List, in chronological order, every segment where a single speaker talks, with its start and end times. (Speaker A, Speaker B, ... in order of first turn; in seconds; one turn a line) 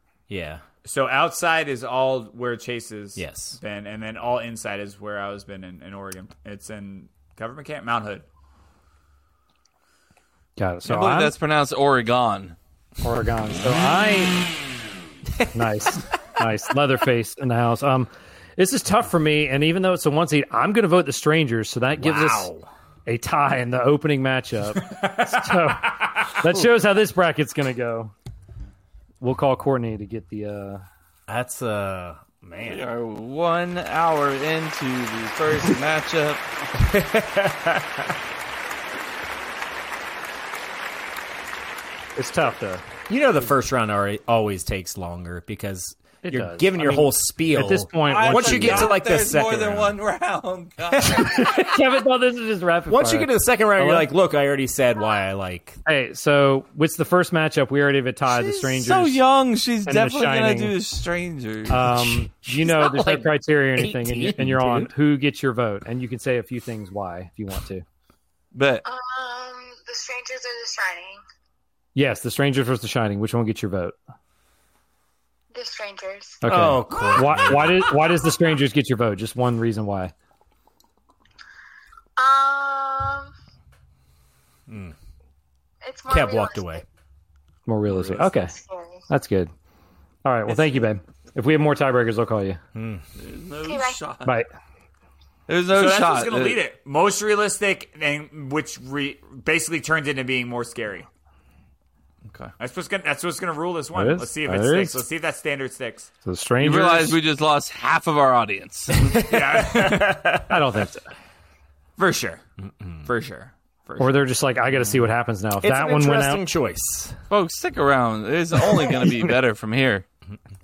Speaker A: 0.3-0.6
Speaker B: 0.8-8.2
Speaker A: 3.1-3.6
Speaker C: 10.6-11.3
Speaker D: 10.8-12.6
Speaker C: 13.0-14.3
Speaker C: 15.5-22.5
Speaker A: 22.0-22.7
Speaker C: 23.1-28.1
Speaker C: 29.2-30.8
Speaker A: 31.3-32.8
Speaker D: 32.6-36.4
Speaker A: 36.8-38.1
Speaker C: 42.1-42.8
Speaker A: 43.1-50.0
Speaker C: 46.2-49.0
Speaker D: 48.1-51.3
Speaker A: 51.0-51.7
Speaker C: 51.2-54.1
Speaker A: 52.9-55.8
Speaker C: 55.9-59.2
Speaker D: 58.3-61.9
Speaker C: 59.9-60.7
Speaker C: 61.7-67.8
Speaker A: 61.9-64.9
Speaker D: 68.5-68.8
Speaker E: 68.8-71.2
Speaker C: 71.9-74.0
Speaker E: 75.5-76.4
Speaker C: 76.4-80.1
Speaker A: 76.4-77.9
Speaker E: 82.2-83.3
Speaker A: 84.7-84.9
Speaker E: 85.8-86.8
Speaker A: 86.1-86.8
Speaker C: 87.7-88.5
Speaker E: 88.4-89.0
Speaker C: 89.1-89.5
Speaker C: 90.2-92.6
Speaker A: 92.7-93.0
Speaker D: 93.2-94.3
Speaker E: 93.6-94.0
Speaker C: 94.2-94.5
Speaker D: 95.5-96.6
Speaker B: 95.7-101.1
Speaker B: 102.6-106.1
Speaker C: 103.9-105.0
Speaker C: 106.2-107.2
Speaker D: 106.6-109.2
Speaker A: 109.1-110.4
Speaker B: 109.2-110.2
Speaker C: 110.5-111.1
Speaker B: 112.0-112.4
Speaker A: 112.6-113.1
Speaker B: 113.0-114.2
Speaker C: 114.0-116.4
Speaker A: 114.8-115.0
Speaker A: 115.6-117.2
Speaker D: 117.3-120.0